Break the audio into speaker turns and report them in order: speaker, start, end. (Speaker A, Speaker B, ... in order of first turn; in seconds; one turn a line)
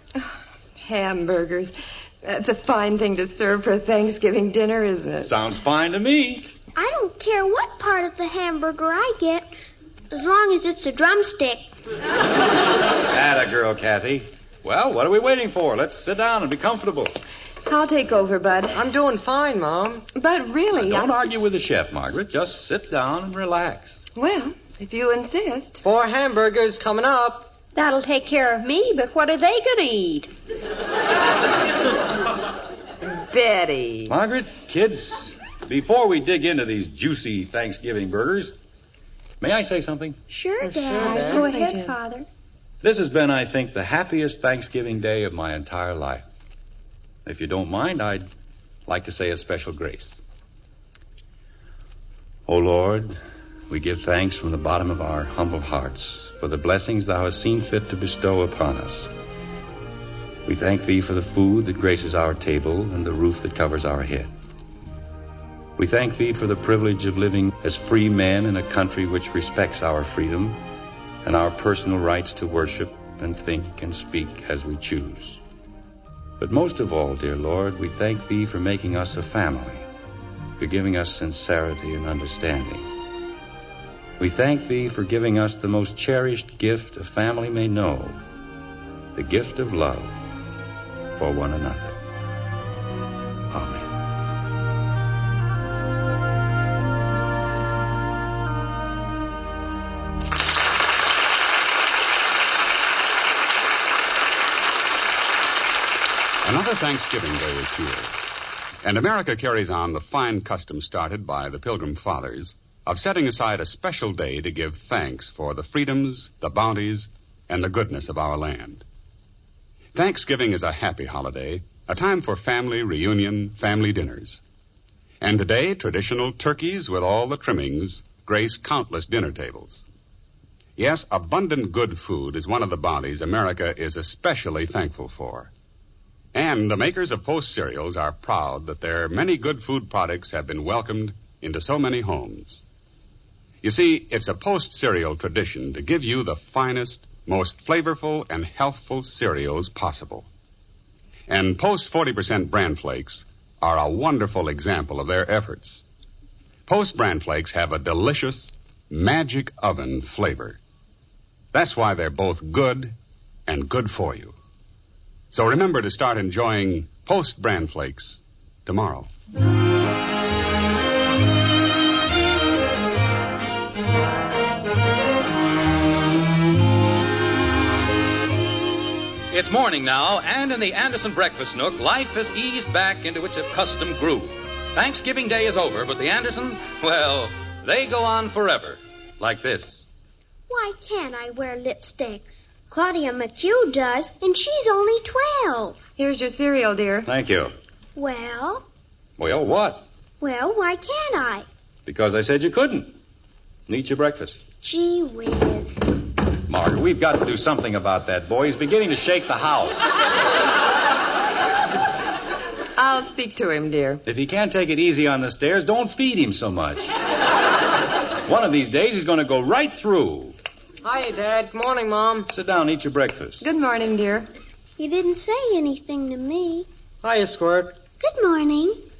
Speaker A: 0.2-5.3
Speaker B: 5.2-6.5
Speaker C: 6.8-9.5
Speaker C: 10.1-11.7
Speaker B: 13.1-17.1
Speaker A: 17.7-18.8
Speaker D: 18.7-20.1
Speaker A: 20.1-21.1
Speaker B: 20.7-24.0
Speaker A: 24.1-25.8
Speaker D: 25.8-27.5
Speaker E: 27.7-30.3
Speaker A: 33.0-34.1
Speaker B: 34.1-38.5
Speaker B: 39.4-40.2
Speaker C: 40.3-41.4
Speaker D: 40.6-41.4
Speaker A: 41.0-42.0
Speaker E: 41.0-42.3
Speaker B: 42.8-46.2
Speaker B: 47.2-48.3
Speaker B: 48.9-50.1
Speaker B: 52.5-53.2
Speaker B: 53.7-59.1
Speaker B: 60.5-64.3
Speaker B: 65.8-70.6
Speaker B: 71.2-75.4
Speaker B: 76.4-79.9
Speaker B: 80.6-82.9
Speaker B: 84.2-88.2
Speaker B: 89.1-90.2
Speaker B: 91.2-92.0
Speaker B: 93.5-93.9
Speaker F: 106.4-108.2
Speaker F: 108.8-118.8
Speaker F: 119.9-124.4
Speaker F: 125.2-129.8
Speaker F: 130.8-135.5
Speaker F: 136.3-142.6
Speaker F: 143.6-150.3
Speaker F: 151.3-155.8
Speaker F: 156.7-160.6
Speaker F: 161.5-162.9
Speaker F: 163.5-164.3
Speaker F: 165.3-169.1
Speaker G: 179.3-188.8
Speaker B: 189.2-189.8
Speaker C: 190.5-195.8
Speaker A: 196.0-197.1
Speaker B: 197.1-197.5
Speaker C: 197.9-198.7
Speaker B: 199.2-199.8
Speaker C: 200.2-201.5
Speaker B: 201.8-203.0
Speaker B: 203.7-204.4
Speaker C: 204.6-205.9
Speaker B: 206.5-209.9
Speaker A: 212.8-214.0
Speaker B: 214.1-216.9
Speaker B: 218.2-220.3
Speaker D: 220.8-222.3
Speaker B: 222.3-223.4
Speaker A: 223.4-224.3
Speaker C: 224.8-226.7
Speaker D: 227.0-227.7
Speaker C: 228.0-228.8